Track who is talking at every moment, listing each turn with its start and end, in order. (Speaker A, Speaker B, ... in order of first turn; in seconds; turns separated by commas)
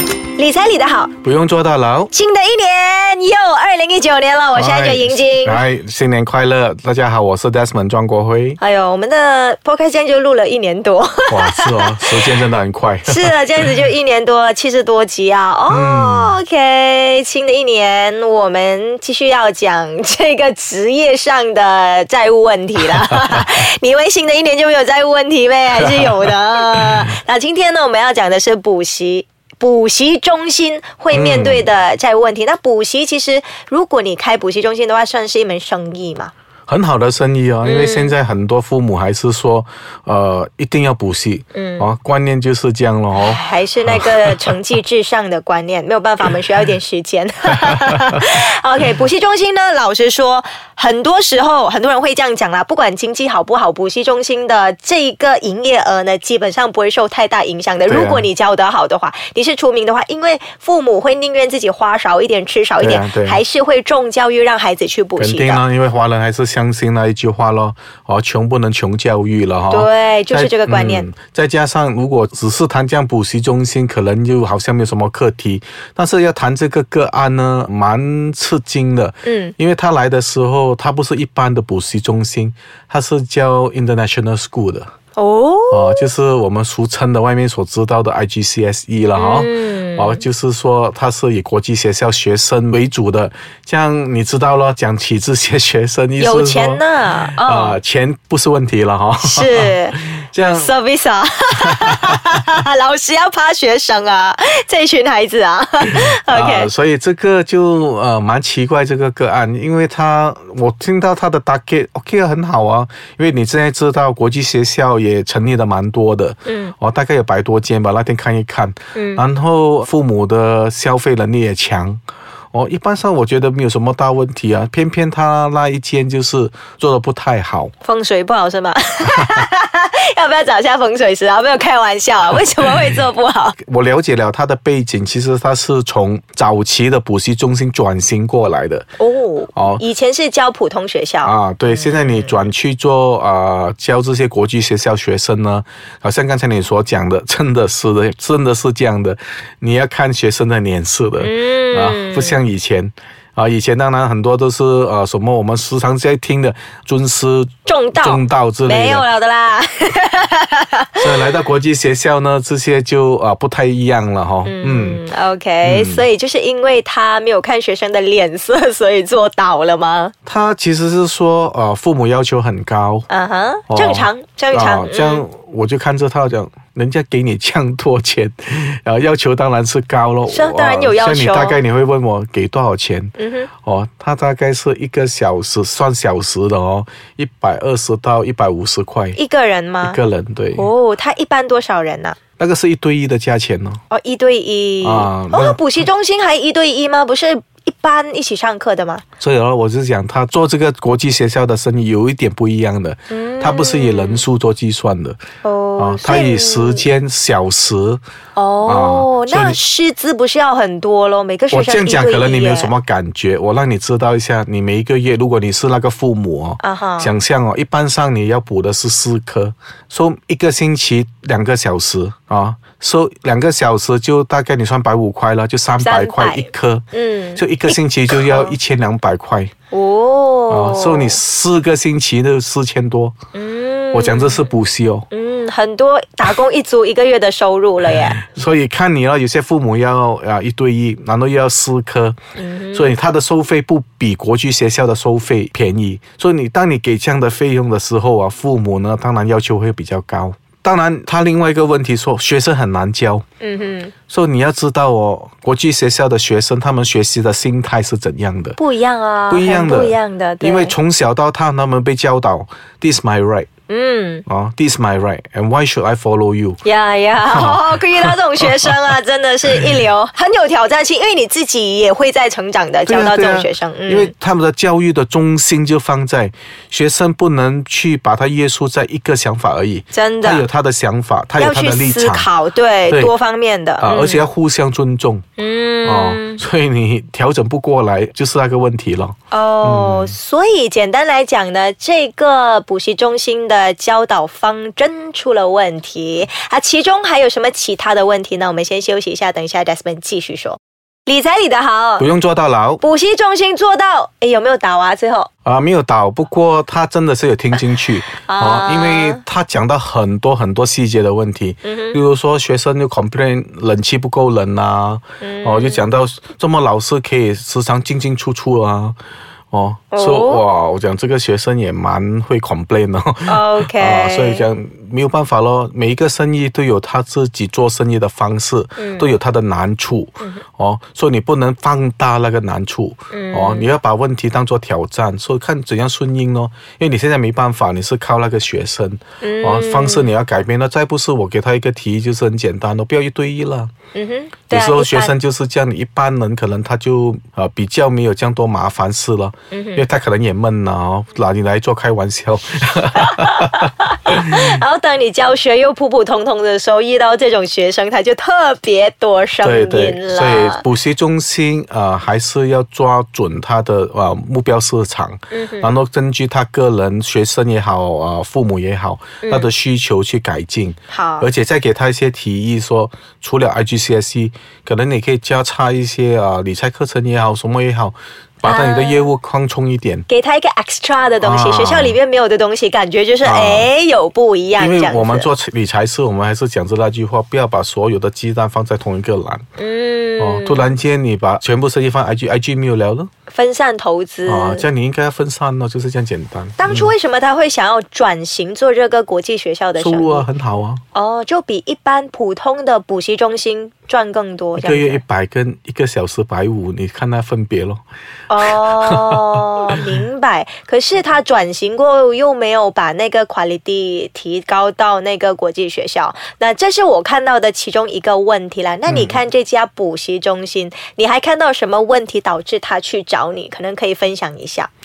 Speaker A: 0.3-1.1, Speaker B: 1.2-2.1, Speaker A: 2.1-5.6, Speaker B: 4.5-8.6, Speaker A: 8.6-12.1, Speaker B: 11.3-13.6, Speaker A: 13.1-36.3, Speaker B: 15.7-16.4, Speaker B: 31.1-31.7, Speaker B: 36.7-44.5, Speaker A: 37.6-38.1, Speaker A: 41.5-41.9, Speaker A: 43.2-65.6, Speaker B: 47.7-48.2, Speaker B: 57.9-58.3, Speaker B: 62.8-63.4, Speaker B: 65.2-84.9, Speaker A: 69.7-71.1, Speaker A: 79.2-79.5, Speaker A: 85.2-86.1, Speaker B: 85.7-100.7, Speaker A: 89.2-90.2, Speaker A: 96.2-97.8, Speaker A: 99.2-100.0, Speaker A: 100.5-106.7, Speaker B: 101.6-102.1, Speaker B: 105.8-122.0, Speaker A: 116.5-116.7, Speaker A: 118.9-119.2, Speaker B: 122.5-127.7, Speaker A: 127.8-133.6, Speaker B: 133.6-138.9, Speaker A: 139.0-142.5, Speaker B: 139.6-139.8, Speaker B: 141.2-159.1, Speaker A: 151.2-152.4, Speaker A: 157.7-161.3, Speaker B: 161.0-165.0, Speaker A: 164.4-170.1, Speaker B: 165.6-166.1, Speaker B: 170.3-173.1, Speaker A: 173.1-175.3, Speaker B: 173.7-189.2, Speaker A: 180.3-181.6, Speaker A: 183.2-183.5, Speaker A: 189.2-190.0, Speaker B: 189.8-190.7, Speaker A: 190.5-192.2, Speaker B: 192.4-193.8, Speaker A: 193.9-199.0, Speaker B: 194.8-195.6, Speaker B: 199.2-205.2, Speaker A: 203.1-204.2, Speaker A: 205.4-206.9, Speaker B: 205.8-208.0, Speaker A: 208.4-212.7, Speaker B: 208.7-209.6, Speaker B: 211.5-226.8, Speaker A: 216.6-217.1, Speaker A: 225.8-228.6, Speaker B: 227.4-229.5, Speaker A: 229.7-231.2, Speaker B: 230.5-233.2, Speaker A: 233.3-234.5, Speaker B: 233.9-235.1, Speaker A: 235.1-238.2, Speaker B: 238.2-242.2, Speaker A: 242.4-242.9, Speaker B: 242.7-253.2, Speaker A: 253.4-253.9, Speaker B: 254.1-258.6, Speaker A: 258.6-260.8, Speaker B: 259.3-263.5, Speaker A: 263.7-264.2, Speaker B: 264.3-266.6, Speaker A: 266.6-274.1, Speaker B: 267.2-268.8, Speaker B: 272.9-282.3, Speaker A: 279.9-280.5, Speaker A: 281.4-284.2, Speaker B: 283.8-285.2, Speaker A: 285.4-286.4, Speaker B: 285.9-290.2, Speaker A: 289.3-302.1, Speaker B: 302.0-302.8, Speaker A: 302.8-305.3, Speaker B: 305.4-319.0, Speaker A: 308.2-309.2, Speaker A: 311.6-312.0, Speaker A: 315.2-315.9, Speaker B: 319.5-343.7, Speaker A: 319.9-320.4, Speaker A: 323.3-324.5, Speaker A: 328.8-329.1, Speaker A: 333.1-333.8, Speaker A: 339.2-340.1, Speaker A: 343.9-345.1, Speaker B: 344.5-354.6, Speaker A: 349.5-349.8, Speaker A: 353.0-360.6, Speaker B: 359.4-380.1, Speaker A: 365.3-365.7, Speaker A: 369.2-369.5, Speaker A: 370.9-371.3, Speaker A: 378.4-379.1, Speaker A: 380.1-385.3, Speaker B: 381.2-382.0, Speaker B: 383.2-383.7, Speaker B: 384.6-389.4, Speaker A: 389.6-390.7, Speaker B: 390.2-393.1, Speaker A: 393.3-394.6, Speaker B: 394.3-396.9, Speaker A: 396.6-400.3, Speaker B: 399.8-400.8, Speaker A: 400.9-405.0, Speaker B: 404.6-407.8, Speaker A: 408.3-424.7, Speaker B: 408.6-409.8, Speaker B: 418.9-419.2